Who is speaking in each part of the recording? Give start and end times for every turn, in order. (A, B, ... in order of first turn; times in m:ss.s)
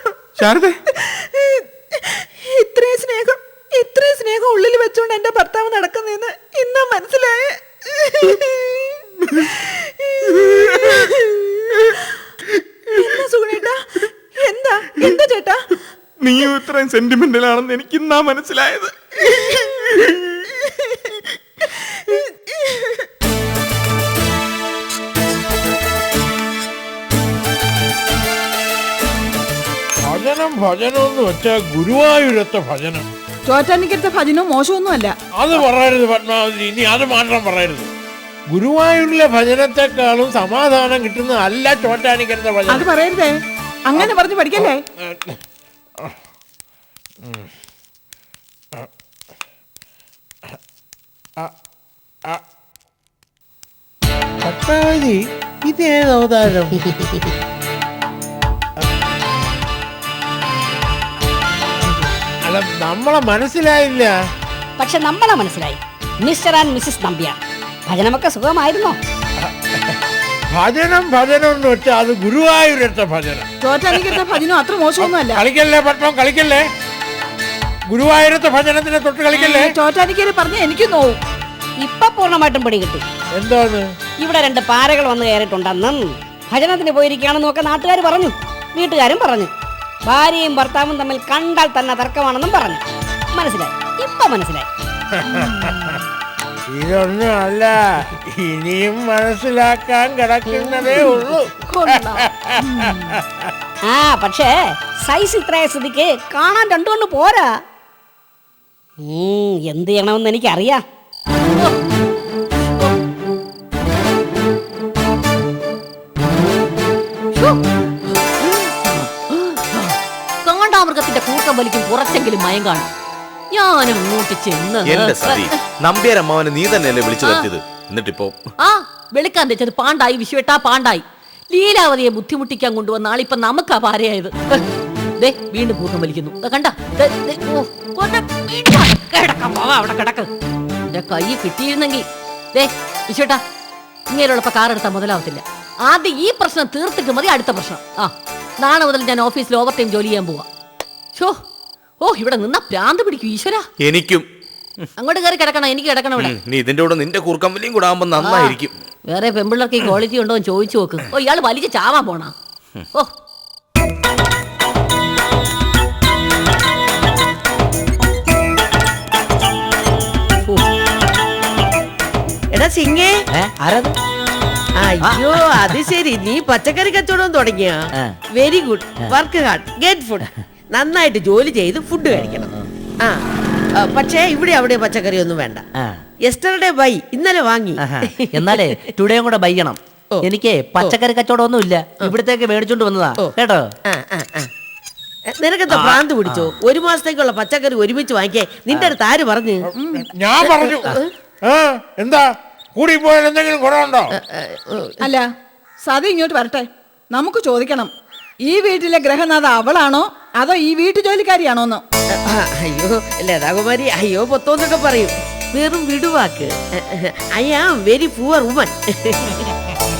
0:00.4-0:00.8 A
0:01.0-0:12.1 B
0:10.4-0:11.0 A
0:13.0-0:15.6 B
0:16.2-0:18.9 A
0:19.8-0:20.1 A
0:30.0-0:33.1 C
0:33.4-0:35.2 B
0:35.3-0:37.9 C
0:38.5-0:42.9 C
0:42.7-0:43.3 B
0:43.9-0:44.8 B
0:44.0-0:45.4 C
0:47.2-0:47.5 C
0:54.4-0:56.9 C
1:02.4-1:04.1 C
1:04.8-1:09.0 D
1:09.4-1:10.0 C
1:10.5-1:14.4 C
1:13.6-1:15.4 B
1:15.0-1:16.6 C
1:17.9-1:19.7 C
1:19.3-1:21.2 B
1:21.8-1:23.0 D
1:23.3-1:23.9 C
1:24.2-1:29.5 D
1:30.1-1:32.8 D
1:33.3-1:34.7 D
1:35.1-1:36.0 C
1:36.7-1:43.5 C
1:41.7-1:42.2 E
1:43.8-1:47.6 D
1:49.0-1:50.8 D
1:58.4-2:02.9 E
2:03.5-2:05.5 E
2:04.8-2:08.4 F
2:07.2-2:07.5 E
2:08.6-2:14.6 E
2:15.2-2:20.3 E
2:20.9-2:23.4 E
2:24.1-2:30.4 E
2:32.0-2:33.6 E
2:33.8-2:34.2 F
2:35.0-2:36.3 E
2:36.2-2:38.8 F
2:38.2-2:38.6 E
2:39.1-2:42.3 E
2:52.5-2:53.1 G
2:53.3-2:53.9 H
2:54.8-2:57.8 G
2:55.0-2:55.8 H
2:58.4-3:03.2 G
3:02.2-3:02.6 H
3:03.8-3:05.6 G
3:06.3-3:08.7 G
3:07.8-3:13.7 H
3:13.9-3:14.5 G
3:15.3-3:19.7 G
3:15.7-3:16.5 H
3:18.7-3:19.0 H
3:19.8-3:24.1 C
3:20.4-3:21.1 G
3:24.2-3:25.0 G
3:25.0-3:25.2 B
3:25.8-3:27.9 B
3:28.4-3:31.8 B
3:32.3-3:39.5 G